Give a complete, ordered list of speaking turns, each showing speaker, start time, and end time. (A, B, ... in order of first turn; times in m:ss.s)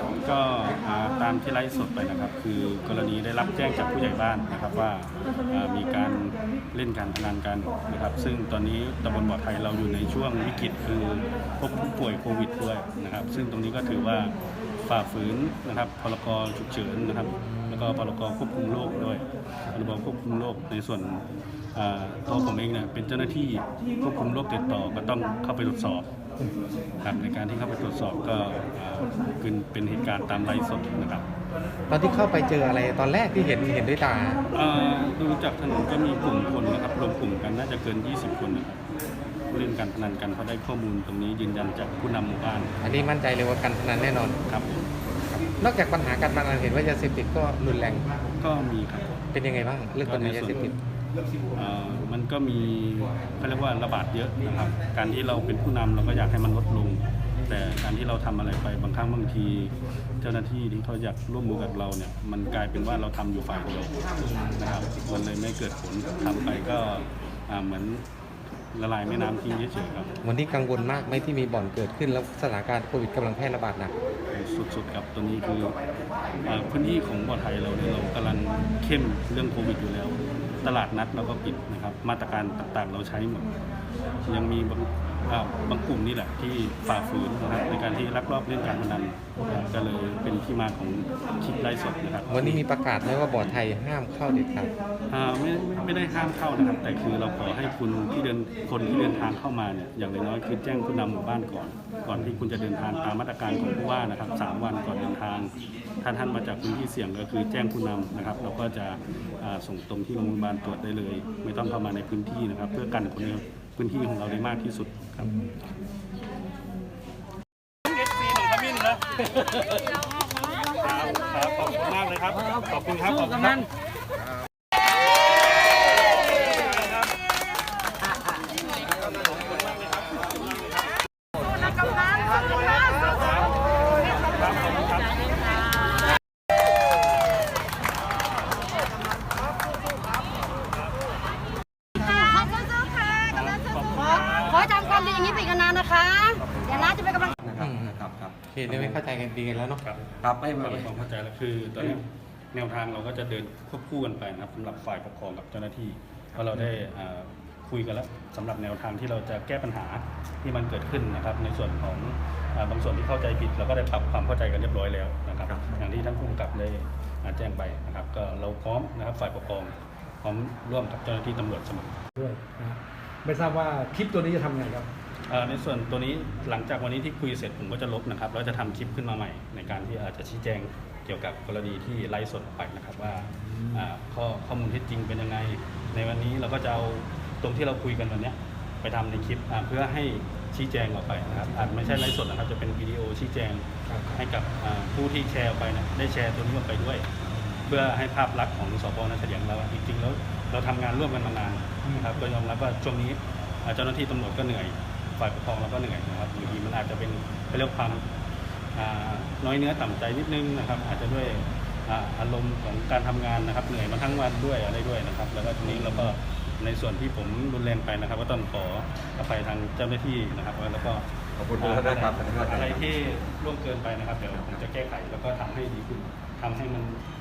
0:00.2-0:14.3 A
0:14.8-0:21.2 A
0:17.5-0:17.9 B
0:21.7-0:26.0 A
0:27.0-0:31.2 A
0:31.9-0:34.4 B
0:34.5-0:38.8 A
0:39.5-0:42.7 A
0:42.8-0:44.4 B
0:44.5-0:44.8 A
0:45.6-0:48.1 B
0:48.3-0:49.1 A
0:49.3-0:50.8 B
0:50.0-0:50.6 A
0:51.5-1:08.0 A
1:08.7-1:10.1 A
1:10.2-1:13.9 B
1:14.3-1:15.8 A
1:16.4-1:23.5 A
1:24.2-1:32.6 A
1:32.3-1:34.7 B
1:35.1-1:55.5 A
1:57.9-2:00.0 A
2:00.8-2:03.7 A
2:14.3-2:15.2 A
2:22.0-2:27.3 C
2:23.3-2:24.7 A
2:26.4-2:28.4 D
2:27.6-2:29.8 B
2:28.7-2:29.0 A
2:29.8-2:52.0 A
2:30.2-2:31.0 D
2:52.2-2:54.9 E
2:55.3-3:13.6 A
3:03.5-3:03.8 E
3:11.3-3:11.8 E
3:13.9-3:14.2 E
3:14.2-3:17.1 A
3:17.7-3:28.0 A
3:21.9-3:22.2 E
3:28.7-3:41.0 A
3:41.4-3:42.8 D
3:41.6-3:47.0 A